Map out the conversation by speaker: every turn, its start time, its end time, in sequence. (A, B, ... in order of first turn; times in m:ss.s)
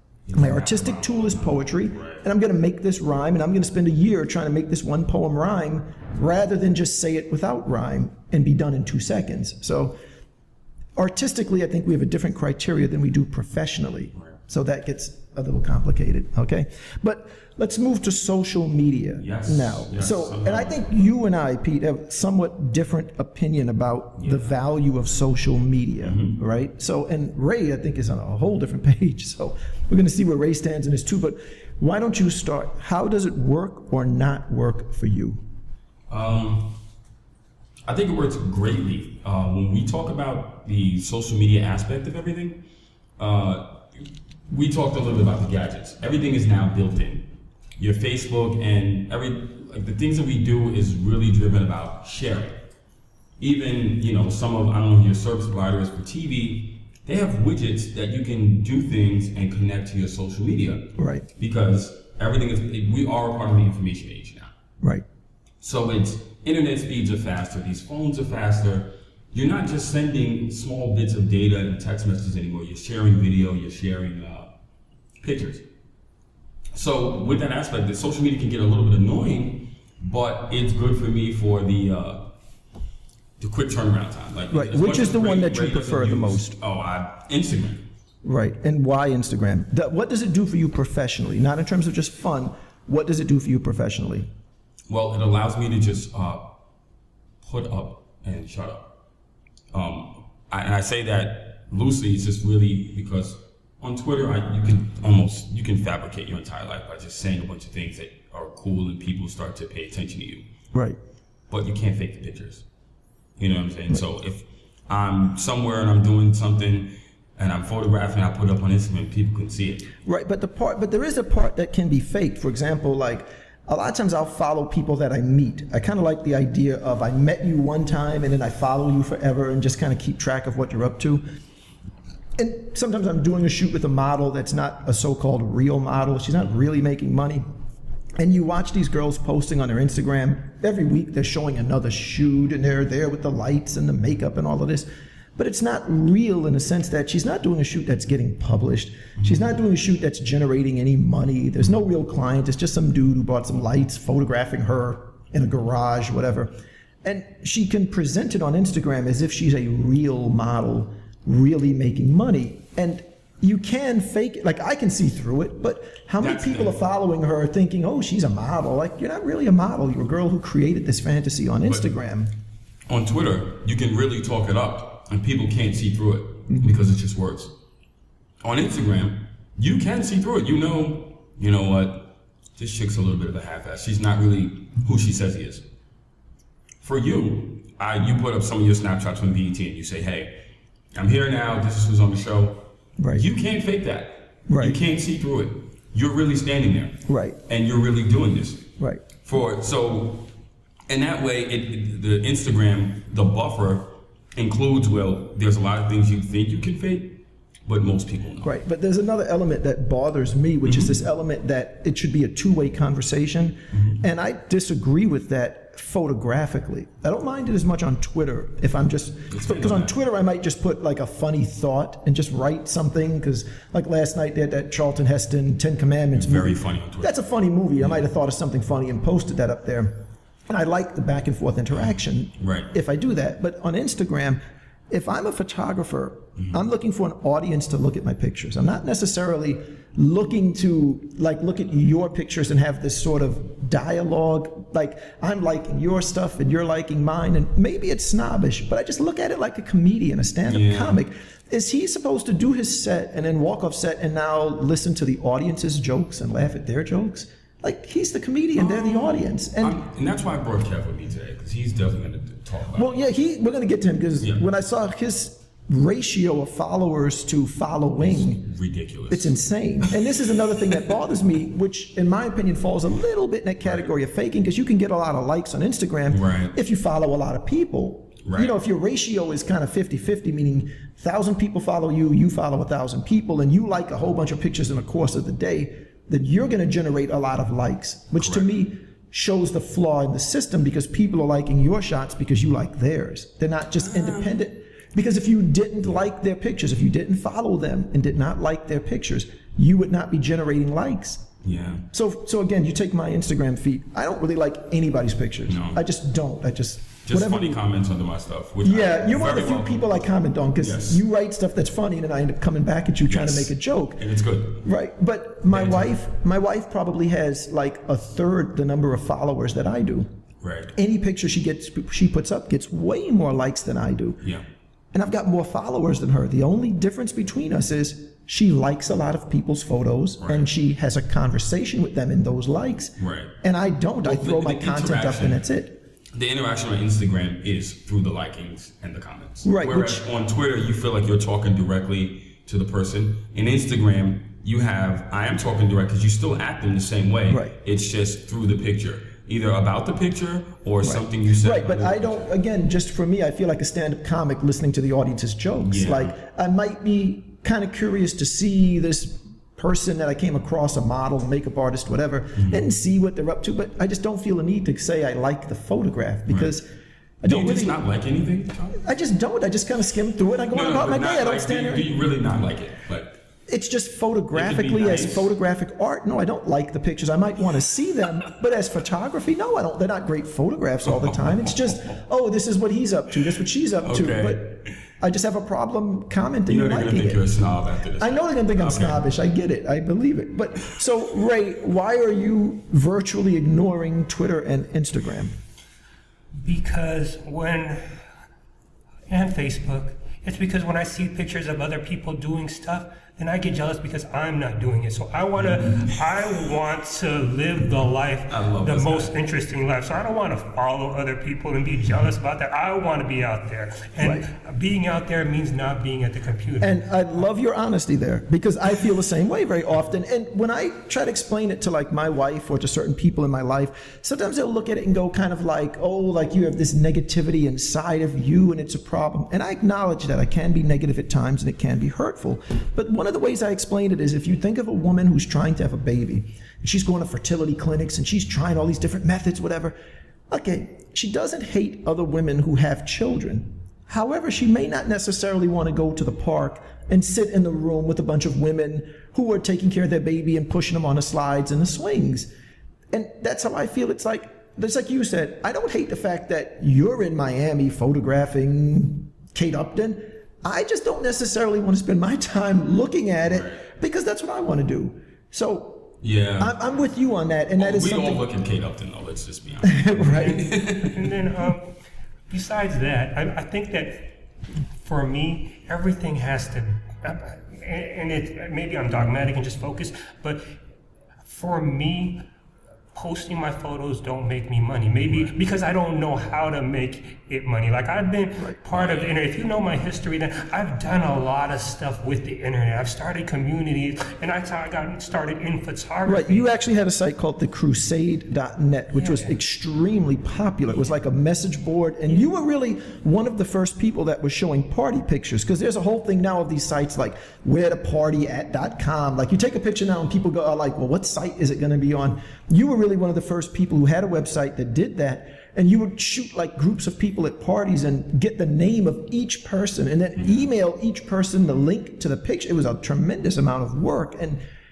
0:00.3-0:02.2 A
0:00.3-0:10.0 B
0:11.0-0:35.4 B
0:19.2-0:21.0 A
0:24.2-0:24.6 A
0:26.0-0:26.4 A
0:36.1-0:36.8 A
0:37.8-0:42.6 A
0:43.2-0:52.6 A
0:53.4-1:04.5 A
1:01.0-1:01.3 B
1:05.6-1:14.5 A
1:15.2-1:15.6 A
1:16.7-1:22.3 A
1:23.4-1:27.8 A
1:24.5-1:26.6 B
1:28.2-1:34.3 B
1:34.9-1:36.6 A
1:37.4-1:38.9 A
1:39.7-1:50.4 A
1:50.7-1:51.0 B
1:51.5-1:52.6 A
1:53.4-1:59.9 A
2:00.0-2:11.2 B
2:12.4-2:17.4 B
2:18.2-2:52.3 B
2:46.2-2:46.8 A
2:51.6-2:51.9 A
2:52.9-2:57.6 A
2:58.4-3:05.6 A
3:06.8-3:10.4 A
3:10.9-3:20.3 A
3:13.0-3:13.3 B
3:14.5-3:14.8 B
3:17.1-3:17.4 B
3:20.9-3:28.5 A
3:28.4-3:50.0 B
3:30.6-3:30.9 A
3:33.7-3:34.0 A
3:39.3-3:39.9 A
3:46.1-3:47.1 A
3:50.5-4:19.8 B
3:51.8-3:52.7 A
4:10.4-4:11.0 A
4:18.6-4:23.0 A
4:22.7-4:28.4 B
4:28.0-4:29.4 A
4:29.1-5:01.3 B
4:30.0-4:30.9 A
4:36.1-4:36.5 A
4:38.2-4:38.5 A
4:48.2-4:48.5 A
4:53.8-4:54.4 A
5:01.4-5:01.8 A
5:01.9-5:07.6 B
5:05.5-5:05.8 A
5:07.0-5:09.9 A
5:08.6-5:14.0 B
5:10.6-5:11.0 A
5:13.0-5:14.6 A
5:14.6-5:20.1 B
5:15.5-5:15.9 A
5:20.4-5:20.8 A
5:20.8-5:24.2 B
5:24.9-5:35.8 B
5:30.2-5:30.5 A
5:33.0-5:33.3 A
5:34.0-5:35.4 A
5:36.1-5:52.3 A
5:39.4-5:40.0 B
5:47.3-5:47.5 B
5:50.8-6:06.7 B
5:55.6-5:56.2 A
6:02.3-6:02.6 A
6:06.3-6:06.5 A
6:07.2-6:07.8 B
6:07.2-6:08.8 A
6:08.8-6:12.0 B
6:10.5-6:13.2 A
6:13.5-6:27.4 B
6:14.3-6:15.3 A
6:20.8-6:22.0 A
6:23.8-6:24.7 A
6:26.5-6:29.0 A
6:28.0-6:35.3 B
6:36.4-6:37.9 C
6:39.1-6:56.8 C
6:45.4-6:46.0 A
6:48.3-6:49.1 A
6:54.0-6:54.2 B
6:56.6-7:19.8 B
7:20.3-7:32.3 B
7:32.9-7:48.2 B
7:43.2-7:43.6 A
7:46.0-7:46.5 A
7:47.6-7:51.1 A
7:49.6-7:50.5 B
7:50.1-7:51.7 C
7:52.3-7:54.2 C
7:54.8-8:00.5 C
8:01.2-8:02.2 C
8:02.9-8:16.5 C
8:05.0-8:05.3 A
8:08.7-8:09.1 A
8:16.0-8:44.4 B
8:18.9-8:19.4 C
8:40.2-8:40.4 A